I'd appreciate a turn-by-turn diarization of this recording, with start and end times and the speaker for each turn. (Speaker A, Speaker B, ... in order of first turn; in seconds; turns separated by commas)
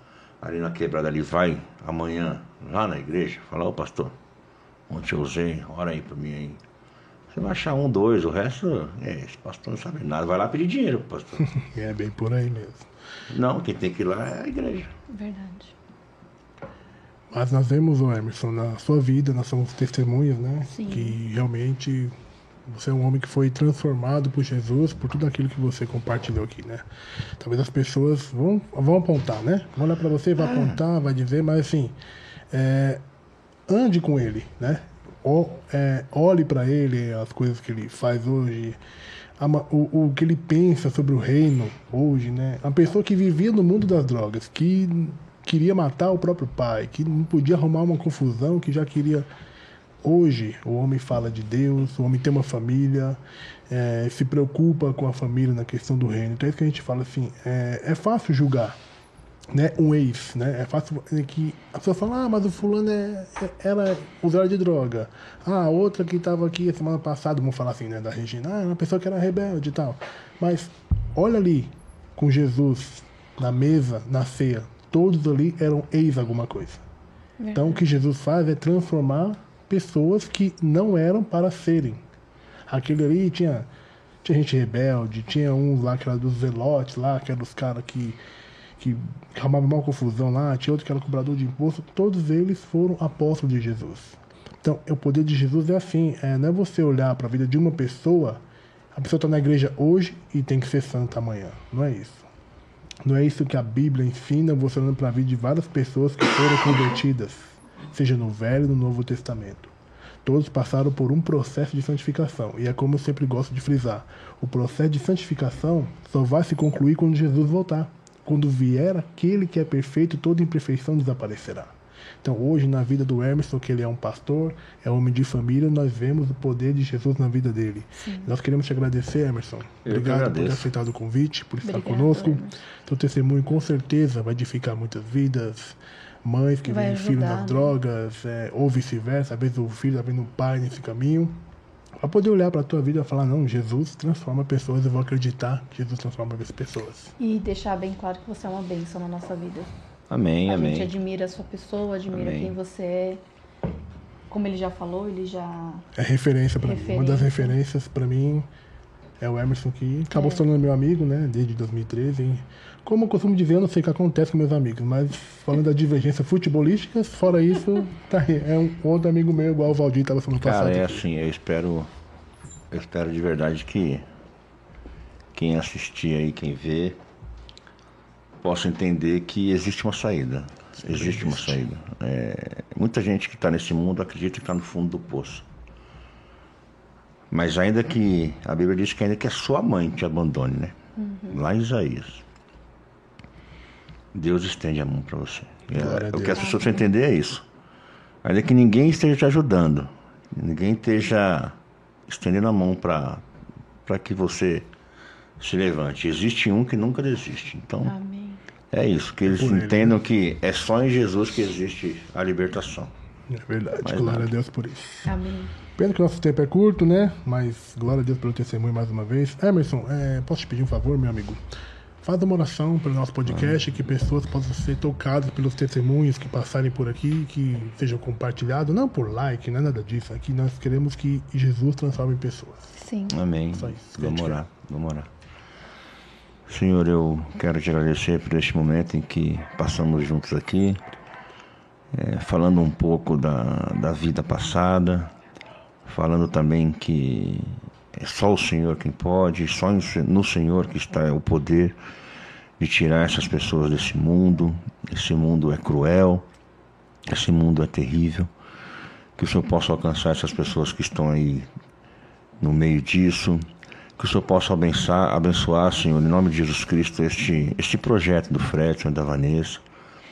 Speaker A: 0.4-4.2, Speaker A: 4.9-6.6, Speaker A: 7.3-11.5, Speaker B: 11.6-12.9, Speaker A: 13.3-14.9, Speaker C: 15.1-15.7, Speaker B: 17.3-22.1, Speaker C: 20.7-21.2, Speaker B: 22.7-26.8, Speaker B: 27.4-31.9, Speaker A: 30.4-30.8, Speaker B: 32.5-33.0, Speaker B: 33.7-38.8, Speaker B: 39.4-49.3, Speaker B: 50.0-58.8, Speaker B: 59.5-76.8, Speaker C: 77.4-77.8, Speaker B: 77.5-82.0, Speaker B: 82.7-83.7, Speaker B: 84.2-88.2, Speaker B: 88.8-98.4, Speaker B: 98.9-102.3, Speaker B: 103.0-109.7, Speaker B: 110.2-141.4, Speaker C: 128.0-128.3, Speaker A: 129.8-130.7, Speaker C: 131.6-132.6, Speaker C: 136.7-137.8, Speaker B: 142.0-147.1, Speaker C: 147.2-149.7, Speaker A: 150.1-150.9, Speaker C: 150.5-153.2, Speaker A: 152.1-152.6, Speaker C: 154.3-155.9, Speaker B: 156.0-158.5, Speaker C: 156.6-157.6, Speaker B: 159.2-171.0, Speaker C: 160.1-160.5, Speaker A: 170.4-171.9, Speaker A: 172.7-174.1, Speaker A: 175.3-177.0, Speaker A: 178.4-185.5, Speaker B: 180.8-181.6, Speaker A: 187.3-190.8, Speaker C: 191.0-191.4, Speaker A: 191.3-192.2, Speaker A: 194.1-197.5, Speaker B: 195.7-196.4, Speaker C: 196.3-196.8, Speaker A: 198.2-201.6, Speaker A: 202.1-203.2, Speaker A: 203.8-204.7, Speaker A: 205.4-207.9, Speaker C: 207.8-208.4, Speaker A: 208.7-212.9, Speaker B: 209.2-209.9, Speaker B: 213.3-215.1, Speaker A: 213.8-214.3, Speaker C: 215.1-215.6, Speaker B: 215.8-221.4, Speaker B: 222.0-232.8, Speaker A: 223.3-223.6, Speaker C: 232.8-233.2, Speaker A: 233.1-235.1, Speaker B: 233.6-234.4, Speaker A: 236.5-240.8, Speaker A: 241.9-245.2, Speaker A: 245.9-251.8, Speaker A: 252.6-256.3, Speaker A: 257.1-258.3, Speaker A: 259.2-261.5, Speaker A: 262.4-263.5, Speaker A: 264.0-269.6